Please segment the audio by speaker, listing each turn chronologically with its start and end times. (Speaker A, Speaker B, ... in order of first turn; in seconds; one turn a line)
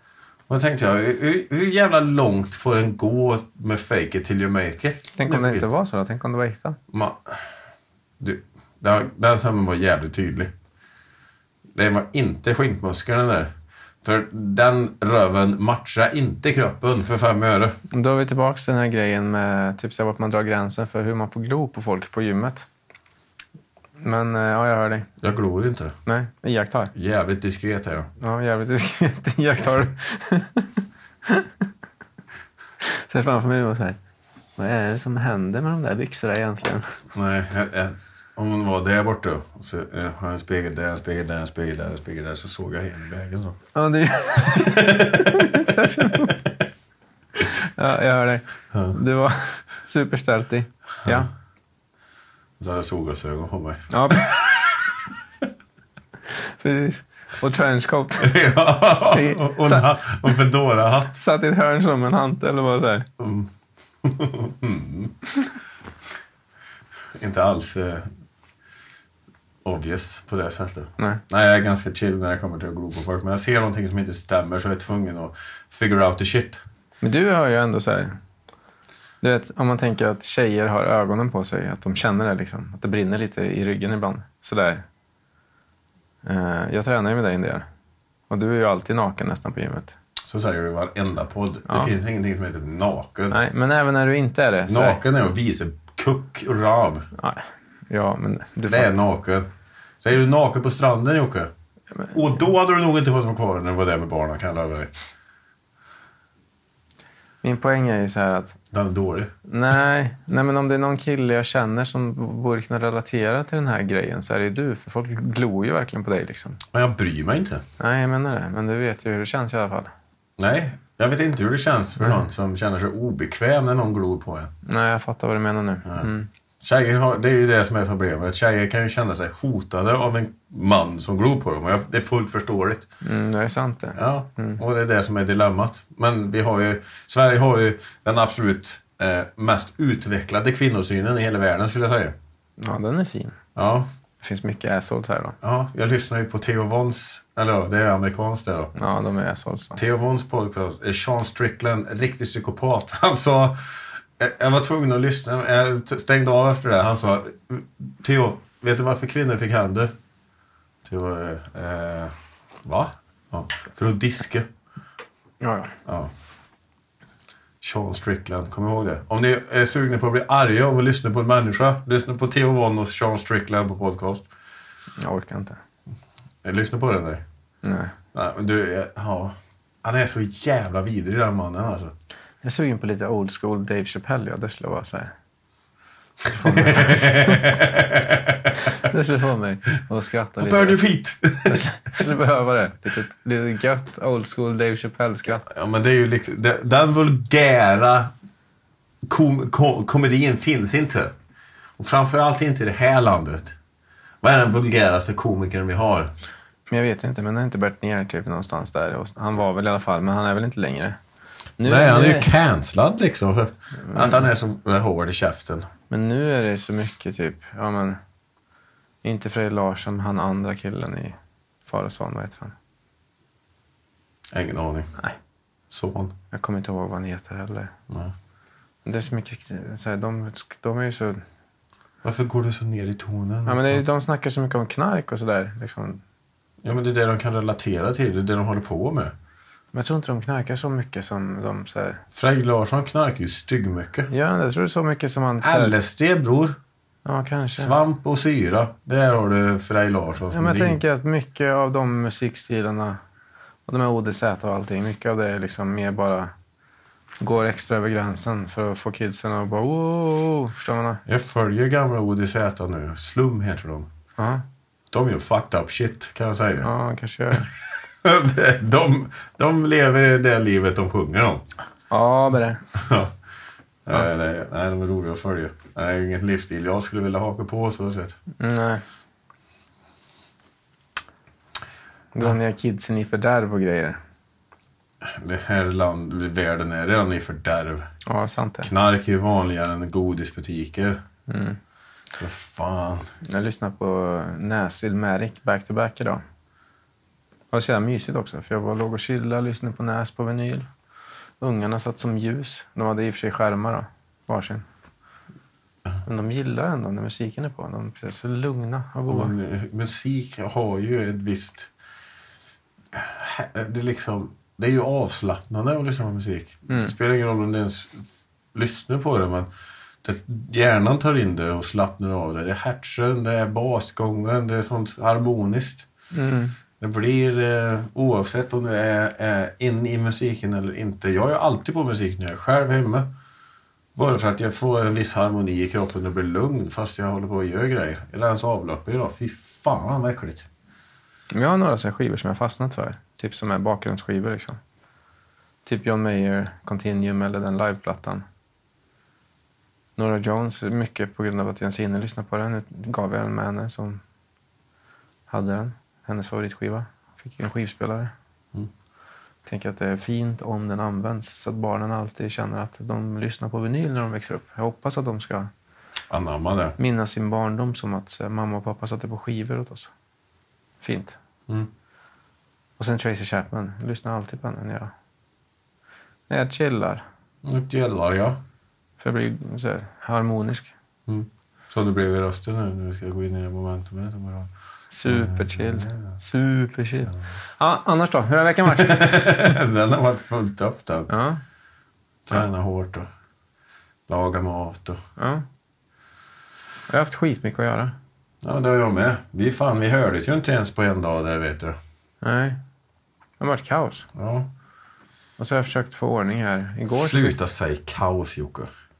Speaker A: 0.5-5.7
Speaker B: 5.2-6.8
Speaker A: 6.9-7.5
Speaker A: 8.2-10.5
Speaker A: 11.7-13.5
Speaker A: 14.0-17.8
Speaker B: 17.9-22.7
Speaker B: 24.0-25.1
Speaker A: 25.2-25.9
Speaker B: 26.1-26.9
Speaker A: 26.9-28.1
Speaker B: 28.2-31.5
Speaker B: 32.8-34.0
Speaker B: 34.6-36.9
Speaker A: 37.1-43.6
Speaker B: 43.7-46.4
Speaker A: 44.4-46.5
Speaker B: 47.4-51.3
Speaker A: 52.6-54.9
Speaker B: 53.9-54.4
Speaker B: 56.3-58.4
Speaker A: 58.2-61.2
Speaker B: 59.1-59.9
Speaker B: 61.1-63.1
Speaker A: 63.2-63.5
Speaker A: 64.0-65.1
Speaker A: 67.1-68.1
Speaker A: 69.6-76.6
Speaker B: 77.0-78.2
Speaker B: 79.2-84.8
Speaker B: 86.2-87.6
Speaker B: 88.3-89.9
Speaker A: 90.3-93.4
Speaker B: 93.3-95.0
Speaker A: 94.7-97.1
Speaker B: 97.2-98.9
Speaker A: 98.7-99.5
Speaker A: 100.0-101.5
Speaker A: 102.1-104.9
Speaker B: 107.4-108.6
Speaker A: 108.7-109.3
Speaker B: 109.5-116.6
Speaker A: 116.7-117.6
Speaker B: 117.8-119.9
Speaker A: 120.4-124.5
Speaker B: 124.6-126.3
Speaker A: 126.6-132.9
Speaker B: 133.0-134.6
Speaker A: 133.9-142.1
Speaker B: 142.6-143.4
Speaker A: 143.5-143.9
Speaker B: 144.2-145.3
Speaker A: 145.4-148.7
Speaker B: 148.7-149.8
Speaker A: 149.8-159.9
Speaker A: 160.8-164.5
Speaker B: 165.4-165.7
Speaker A: 165.8-166.1
Speaker A: 167.6-174.3
Speaker B: 175.0-175.6
Speaker A: 176.4-177.2
Speaker B: 177.6-177.9
Speaker A: 178.1-181.9
Speaker B: 182.4-185.1
Speaker B: 186.3-187.5
Speaker A: 186.3-188.7
Speaker B: 188.6-190.8
Speaker A: 190.4-191.6
Speaker B: 191.4-195.4
Speaker A: 195.4-198.1
Speaker A: 199.0-201.1
Speaker A: 201.8-203.6
Speaker A: 204.2-206.1
Speaker B: 206.7-211.0
Speaker B: 211.6-212.3
Speaker A: 211.6-215.7
Speaker B: 213.9-214.2
Speaker B: 215.9-218.0
Speaker B: 219.0-222.5
Speaker A: 224.3-224.9
Speaker A: 225.7-226.1
Speaker B: 226.3-227.7
Speaker A: 227.9-228.1
Speaker B: 228.8-231.2
Speaker A: 232.0-233.8
Speaker B: 233.4-236.0
Speaker A: 236.6-239.1
Speaker B: 239.7-242.0
Speaker A: 242.1-244.1
Speaker B: 244.1-245.7
Speaker A: 245.4-246.6
Speaker B: 247.0-247.8
Speaker A: 247.6-250.8
Speaker B: 250.3-253.0
Speaker B: 253.7-256.3
Speaker B: 257.2-261.0
Speaker A: 261.1-263.9
Speaker B: 264.2-264.4
Speaker A: 264.9-266.7
Speaker B: 266.6-267.5
Speaker A: 267.4-271.4
Speaker B: 271.9-272.6
Speaker A: 272.7-273.1
Speaker A: 273.8-278.2
Speaker B: 278.4-278.8
Speaker B: 282.1-284.0
Speaker A: 285.0-287.9
Speaker B: 288.0-288.7
Speaker A: 288.6-291.0
Speaker B: 291.3-291.6
Speaker A: 292.2-293.1
Speaker B: 293.2-296.2
Speaker B: 297.5-300.7
Speaker B: 301.4-304.6
Speaker B: 306.0-309.3
Speaker A: 309.1-311.7
Speaker A: 312.9-319.5
Speaker B: 316.7-316.9
Speaker A: 320.0-325.9
Speaker B: 326.1-326.6
Speaker A: 326.8-333.1
Speaker A: 333.9-340.5
Speaker B: 341.3-344.6
Speaker B: 345.6-348.2
Speaker B: 350.0-354.0
Speaker B: 355.3-358.1
Speaker B: 359.4-365.5
Speaker A: 366.1-366.8
Speaker B: 366.8-369.9
Speaker B: 370.8-371.2
Speaker B: 372.8-374.9
Speaker B: 376.3-377.0
Speaker A: 377.4-378.4
Speaker B: 379.0-380.7
Speaker A: 381.1-384.5
Speaker B: 384.9-389.6
Speaker A: 385.1-386.1
Speaker A: 388.6-391.1
Speaker B: 391.1-391.4
Speaker A: 392.2-393.1
Speaker A: 394.1-395.0
Speaker B: 395.2-395.4
Speaker B: 396.9-397.9
Speaker A: 398.4-401.8
Speaker B: 402.2-402.6
Speaker B: 403.4-404.1
Speaker A: 404.1-404.5
Speaker B: 405.4-407.4
Speaker A: 406.9-408.7